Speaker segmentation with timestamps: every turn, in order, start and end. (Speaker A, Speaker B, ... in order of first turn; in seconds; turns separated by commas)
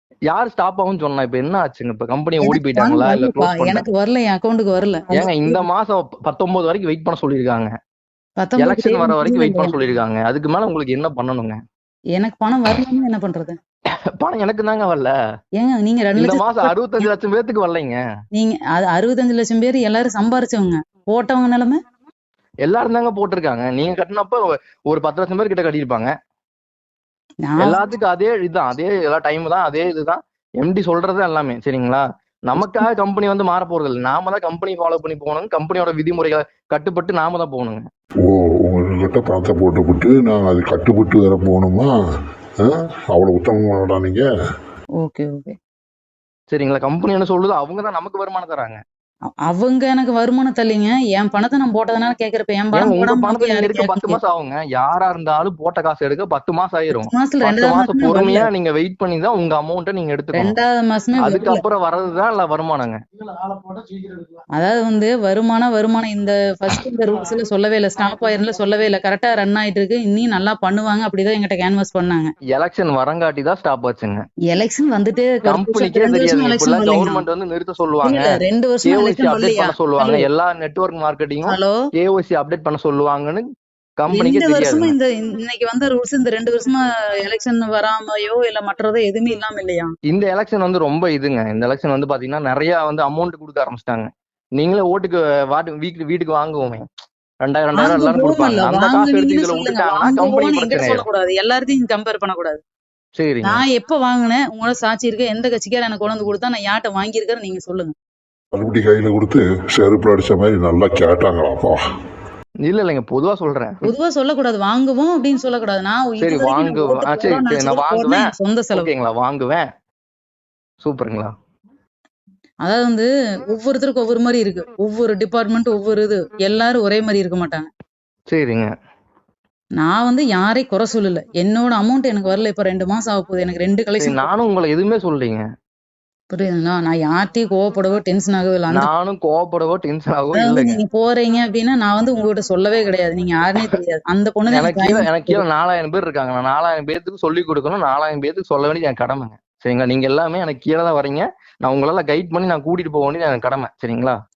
Speaker A: 0.3-3.8, Speaker B: 2.4-5.6, Speaker A: 5.2-7.7, Speaker B: 8.4-9.8, Speaker A: 8.6-11.6, Speaker B: 12.2-13.6, Speaker A: 14.2-15.1, Speaker B: 15.6-17.1, Speaker A: 16.2-18.0, Speaker B: 18.3-21.8, Speaker A: 22.6-26.1, Speaker B: 27.5-27.8, Speaker A: 27.6-37.9, Speaker C: 38.2-41.9, Speaker C: 42.6-44.3, Speaker B: 45.0-45.6, Speaker A: 46.5-48.8, Speaker B: 49.5-54.2, Speaker A: 52.7-60.5, Speaker B: 56.9-58.5, Speaker B: 60.3-61.6, Speaker A: 61.2-63.0, Speaker B: 64.6-72.3, Speaker A: 72.5-74.2, Speaker B: 74.5-77.2, Speaker A: 75.5-83.5, Speaker B: 78.0-80.3, Speaker B: 81.5-81.8, Speaker A: 84.0-84.9, Speaker B: 84.1-89.9, Speaker A: 90.1-96.8, Speaker A: 97.4-101.0, Speaker B: 97.8-102.6, Speaker A: 103.2-103.6, Speaker B: 103.4-107.9, Speaker C: 108.5-111.8, Speaker A: 112.6-113.8, Speaker B: 113.8-118.9, Speaker A: 116.2-119.7, Speaker A: 120.8-121.3, Speaker B: 122.7-127.7, Speaker A: 128.3-128.7, Speaker B: 129.8-134.3, Speaker A: 134.0-135.4, Speaker B: 136.3-138.9, Speaker A: 138.7-140.8, Speaker B: 140.3-145.4, Speaker A: 144.5-154.2